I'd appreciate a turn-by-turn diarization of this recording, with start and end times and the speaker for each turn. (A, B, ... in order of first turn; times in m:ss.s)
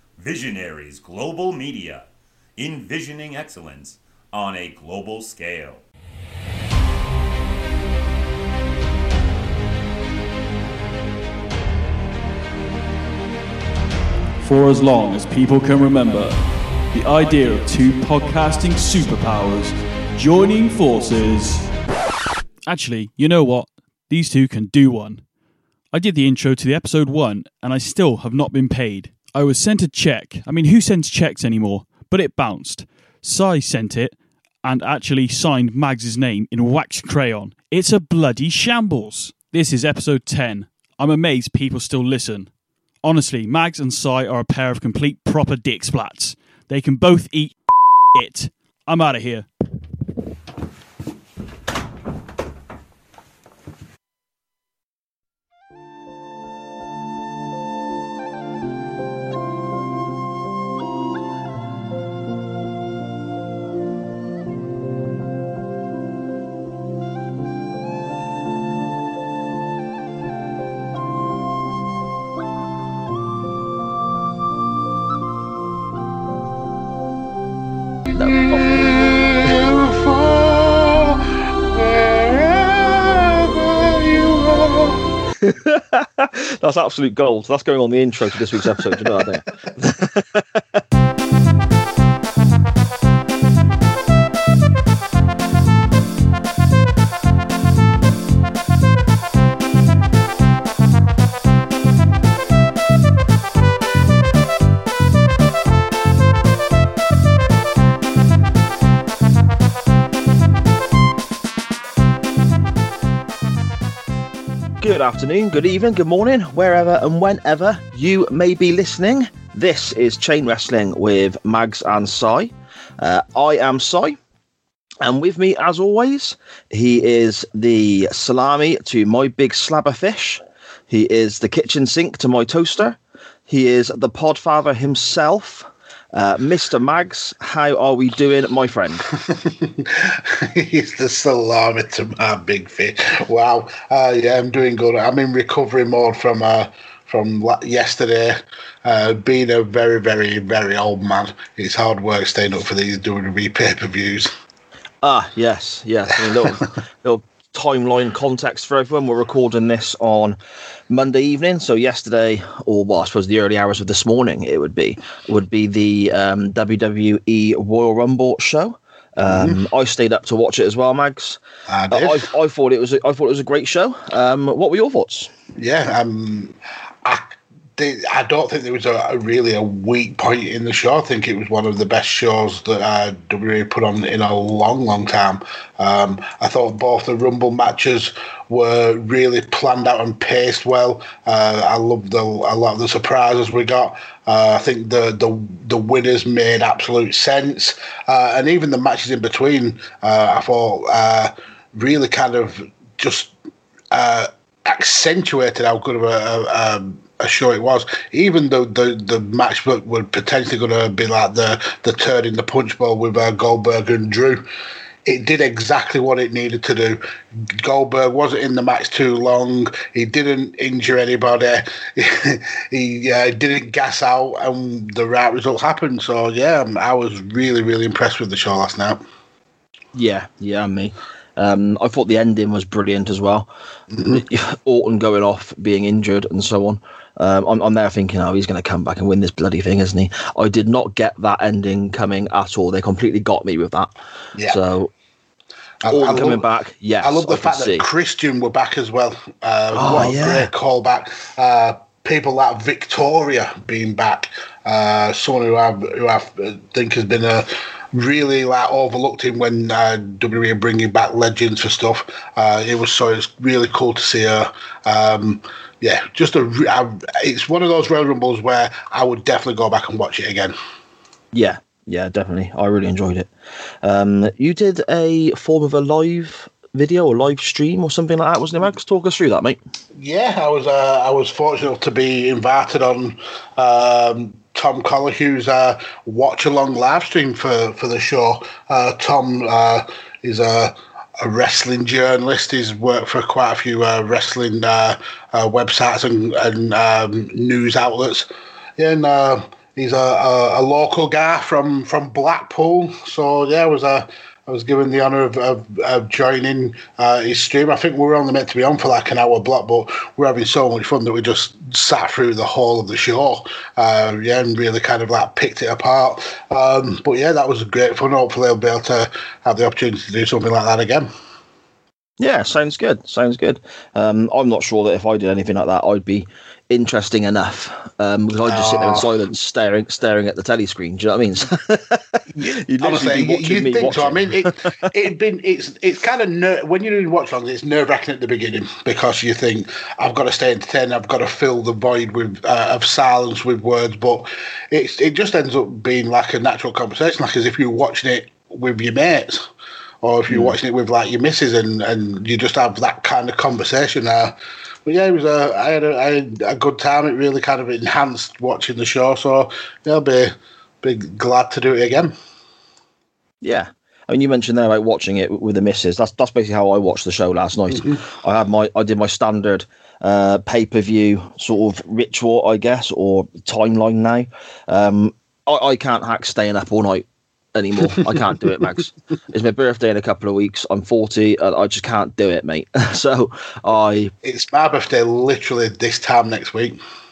0:00.2-0:05.8 A
0:14.4-0:21.7 B
0:22.7-0:25.2 B
0:25.9-0:47.6 B
0:48.1-0:49.5 B
1:18.1-1:19.0 C
1:18.4-1:25.0 D
1:25.4-1:30.8 C
1:54.8-2:04.2 C
2:05.0-2:19.1 C
2:19.2-2:34.3 D
2:35.0-2:40.4 C
2:40.9-2:55.3 C
2:49.3-2:49.6 D
2:51.7-2:52.3 D
2:55.6-3:23.3 D
3:23.9-3:34.4 D
3:35.0-3:49.0 D
3:49.9-3:53.5 C
3:53.9-3:54.2 D
3:54.1-4:03.9 C
4:04.4-4:04.6 D
4:04.5-4:04.9 C
4:05.8-4:06.4 D
4:05.9-4:07.9 C
4:07.0-4:30.6 D
4:09.7-4:10.5 C
4:31.3-4:33.3 C
4:33.8-4:39.6 C
4:40.0-5:21.1 D
5:22.2-5:34.9 C
5:28.4-5:29.1 D
5:32.4-5:49.4 D
5:50.0-6:02.1 D
5:50.3-5:50.5 C
6:03.4-6:24.1 C
6:24.2-6:26.8 D